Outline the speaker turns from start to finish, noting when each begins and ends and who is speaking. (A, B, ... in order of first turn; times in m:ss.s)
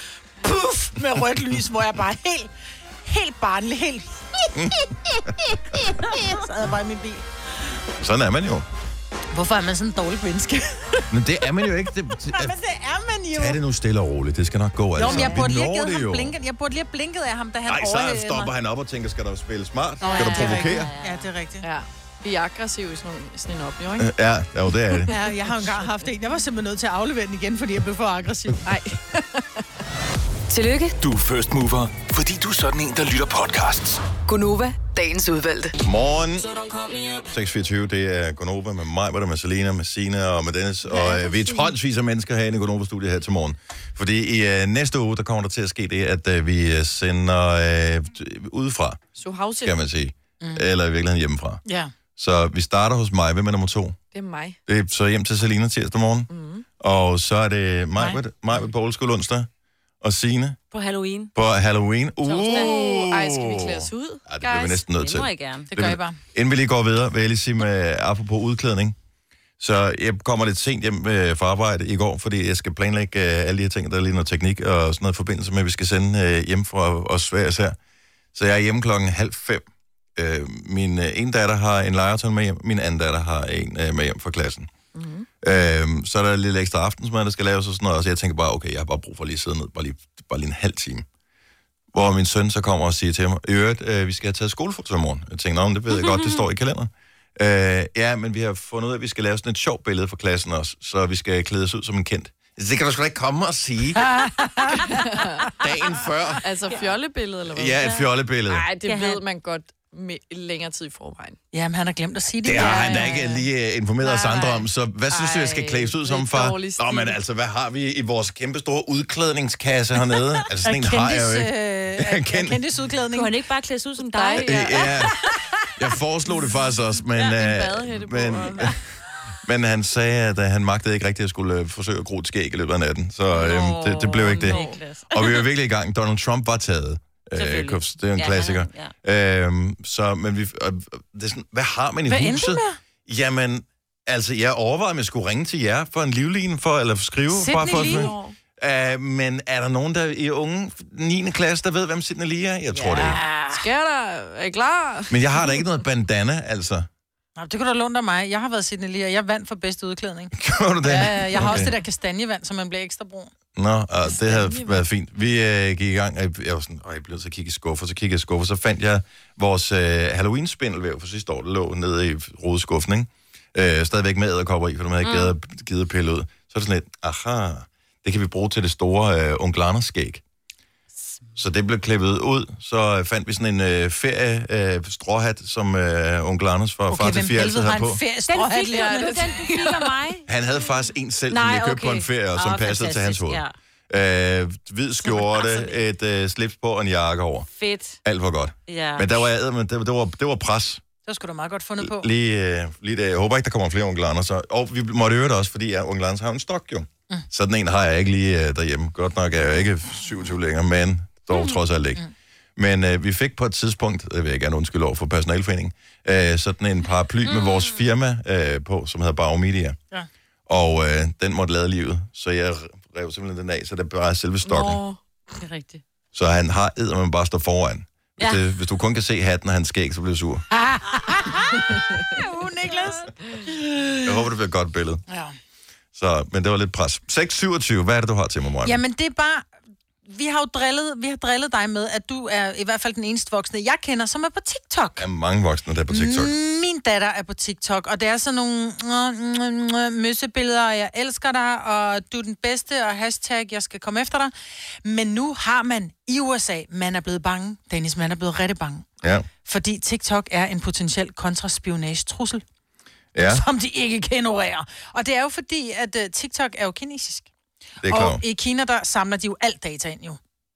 0:00.4-0:02.5 A
0:03.0-0:04.8 A
0:04.5-0:04.9 B
0:05.5-0:07.2 A
0:08.0-0:08.6 B
0:09.3-0:11.0 A
0:11.1-0:12.5 B
0:12.2-0:13.6 A
0:13.3-0:16.3 B
0:15.0-0:18.5 A
0:17.7-0:20.9 B
0:20.0-0:21.6 A
0:20.1-0:21.3 C
0:21.6-0:24.1 D
0:24.0-0:25.1 B
0:24.9-0:25.1 D
0:25.1-0:28.7 A
0:28.6-0:29.6 D
0:30.5-0:31.0 E
0:31.0-0:34.0 F
0:34.2-0:35.7 E
0:35.8-0:36.5 B
0:37.2-0:49.0 B
0:40.9-0:41.7 D
0:49.1-0:49.8 D
0:49.6-0:51.6 B
0:51.6-0:51.9 A
0:52.2-0:54.0 B
0:54.1-0:54.6 D
0:54.6-0:59.5 B
0:56.3-0:56.6 D
1:00.0-1:00.6 B
1:00.7-1:01.3 C
1:01.3-1:09.0 B
1:02.2-1:02.8 C
1:02.4-1:04.8 D
1:04.9-1:05.7 C
1:05.7-1:06.2 A
1:09.6-1:17.8 B
1:18.3-1:19.6 B
1:20.2-1:24.7 B
1:24.9-1:25.3 D
1:25.4-1:31.0 B
1:31.9-1:44.8 B
1:35.9-1:36.4 C
1:44.0-1:45.0 A
1:44.8-1:45.5 D
1:45.5-1:46.4 B
1:46.4-1:47.8 D
1:47.5-1:48.6 B
1:47.8-1:48.1 C
1:48.5-1:51.4 D
1:48.8-1:49.2 C
1:51.5-1:53.3 A
1:52.4-2:02.6 B
1:52.5-1:53.4 D
1:54.0-1:54.6 C
1:55.1-1:57.2 D
2:00.6-2:03.3 A
2:03.1-2:05.1 C
2:04.0-2:05.1 D
2:04.4-2:05.2 B
2:05.8-2:08.8 B
2:07.1-2:08.7 D
2:09.4-2:33.2 B
2:13.3-2:15.5 C
2:14.2-2:14.8 D
2:17.4-2:18.9 C
2:22.1-2:22.8 A
2:27.3-2:28.1 A
2:27.6-2:28.4 D
2:32.8-2:35.6 D
2:33.0-2:33.6 A
2:35.1-2:36.9 B
2:37.4-2:43.3 A
2:40.3-2:41.7 B
2:41.0-2:41.7 D
2:43.6-3:00.2 B
2:44.0-2:44.8 D
2:55.0-2:55.3 C
3:01.4-3:08.0 B
3:06.9-3:09.8 A
3:08.3-3:10.2 C
3:08.7-3:09.7 D
3:10.3-3:17.5 B
3:11.3-3:13.5 C
3:15.0-3:15.8 C
3:17.6-3:18.0 C
3:18.0-3:20.8 B
3:18.7-3:19.3 C
3:21.0-3:22.1 A
3:21.8-3:32.0 B
3:32.6-3:39.8 B
3:37.2-3:37.8 C
3:40.5-3:44.8 B
3:44.5-3:45.0 D
3:45.4-3:45.8 C
3:46.1-3:50.4 B
3:50.5-3:54.0 A
3:54.0-3:55.0 B
3:55.1-3:55.3 A
3:55.9-3:58.8 B
3:58.6-3:59.5 A
4:00.1-4:05.0 A
4:05.0-4:06.3 B
4:05.9-4:14.3 A
4:14.8-4:18.9 A
4:19.4-4:22.4 A
4:23.1-4:23.4 B
4:23.2-4:27.3 A
4:27.8-4:28.2 B
4:27.8-4:30.2 A